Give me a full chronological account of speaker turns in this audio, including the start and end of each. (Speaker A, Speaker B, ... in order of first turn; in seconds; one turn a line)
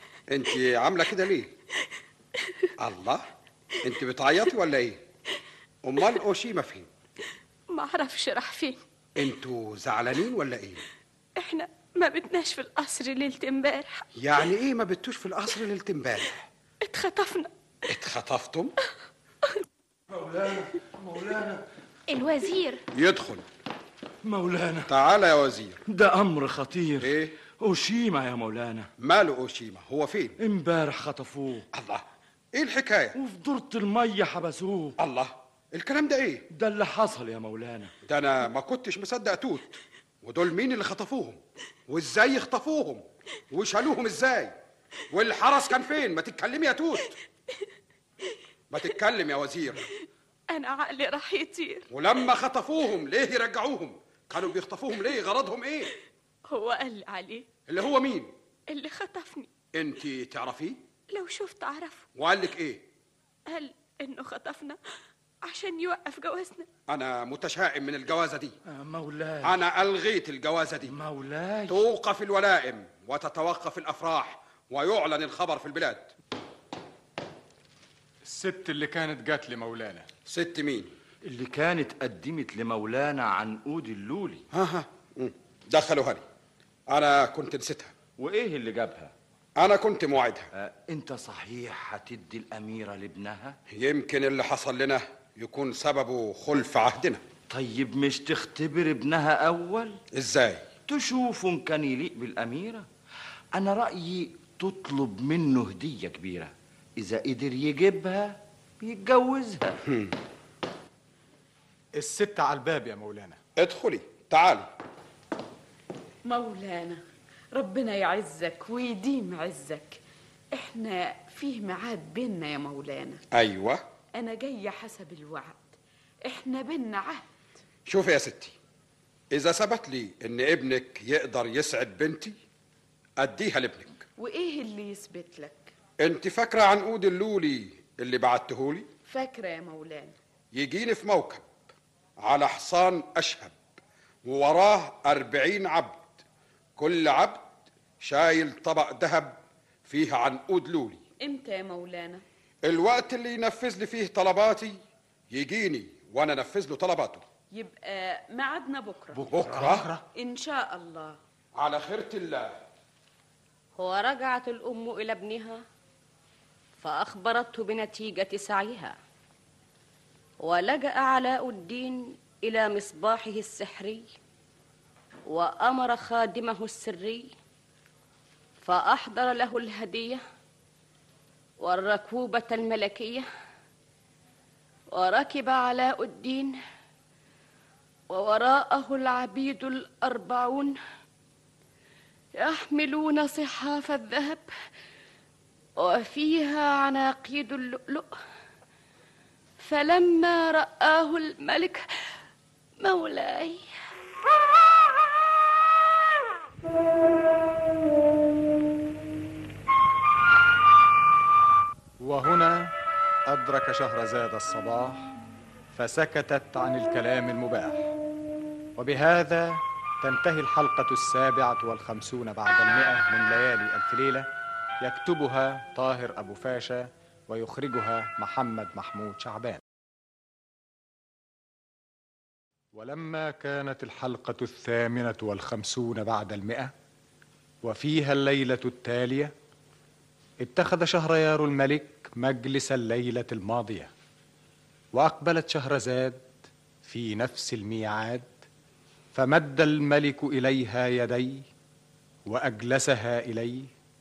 Speaker A: 0.3-1.5
Speaker A: 2.8-3.2
Speaker A: 3.8-5.0
Speaker A: 5.8-6.9
Speaker B: 7.7-8.8
Speaker A: 9.2-10.8
Speaker B: 11.4-14.0
Speaker A: 14.2-16.4
Speaker B: 16.8-17.5
Speaker A: 17.9-18.7
Speaker C: 20.1-21.6
Speaker B: 22.1-22.8
Speaker A: 22.9-23.4
Speaker C: 24.2-24.9
Speaker A: 24.9-25.8
Speaker C: 25.9-28.9
Speaker A: 27.0-27.4
Speaker A: 29.0-30.4
Speaker C: 30.4-31.6
Speaker A: 31.7-32.0
Speaker A: 32.5-33.1
Speaker C: 33.1-35.0
Speaker A: 35.0-36.5
Speaker C: 36.5-37.9
Speaker A: 38.1-39.7
Speaker A: 40.2-44.5
Speaker A: 45.1-47.1
Speaker A: 48.7-49.8
Speaker B: 50.5-51.9
Speaker A: 51.9-55.9
Speaker B: 56.5-57.5
Speaker A: 57.7-58.3
Speaker B: 58.7-59.5
Speaker A: 59.7-60.8
Speaker B: 61.1-62.1
Speaker A: 62.2-62.8
Speaker B: 63.5-64.8
Speaker B: 65.5-66.7
Speaker A: 66.9-68.6
Speaker C: 68.7-69.7
Speaker A: 69.4-70.9
Speaker C: 70.9-71.8
Speaker A: 71.7-76.1
Speaker D: 78.2-80.1
Speaker A: 80.3-80.9
Speaker C: 81.3-84.4
Speaker A: 84.5-86.2
Speaker A: 86.9-87.9
Speaker C: 88.2-89.1
Speaker A: 89.6-90.5
Speaker C: 90.6-93.6
Speaker A: 93.7-97.2
Speaker C: 97.5-100.0
Speaker A: 100.1-100.7
Speaker C: 100.9-102.8
Speaker C: 103.5-109.7
Speaker A: 109.8-110.2
Speaker D: 112.0-113.4
Speaker A: 113.6-114.7
Speaker E: 116.3-117.0
Speaker E: 117.5-120.0
Speaker E: 120.5-123.2
Speaker A: 123.3-123.8
Speaker E: 124.2-125.7
Speaker E: 126.2-127.2
Speaker A: 127.9-128.5
Speaker A: 129.3-132.3
Speaker A: 133.2-134.0
Speaker E: 134.2-135.7
Speaker A: 136.0-138.9
Speaker E: 139.1-140.1
Speaker A: 140.5-141.4
Speaker A: 142.2-143.6
Speaker A: 144.2-146.1
Speaker A: 146.8-147.4
Speaker A: 148.0-151.0
Speaker E: 151.2-152.2
Speaker A: 152.6-154.8
Speaker A: 155.3-157.2
Speaker E: 157.5-159.2
Speaker A: 159.3-159.9
Speaker D: 159.6-160.0
Speaker E: 160.2-161.2
Speaker A: 161.6-162.6
Speaker F: 163.8-165.6
Speaker F: 166.8-169.0
Speaker F: 170.4-174.1
Speaker F: 175.3-177.3
Speaker F: 178.6-180.2
Speaker F: 181.6-183.3
Speaker F: 184.9-186.6
Speaker F: 188.1-190.8
Speaker F: 192.4-194.5
Speaker F: 195.8-198.1
Speaker F: 199.6-201.8
Speaker F: 202.8-203.6
Speaker D: 212.0-212.7
Speaker D: 213.3-215.1
Speaker D: 215.7-217.9
Speaker D: 218.8-224.3
Speaker D: 224.8-229.6
Speaker D: 232.7-236.7
Speaker D: 237.6-239.3
Speaker D: 240.4-243.9
Speaker D: 244.9-246.3
Speaker D: 246.8-248.4
Speaker D: 249.1-251.4
Speaker D: 252.3-253.7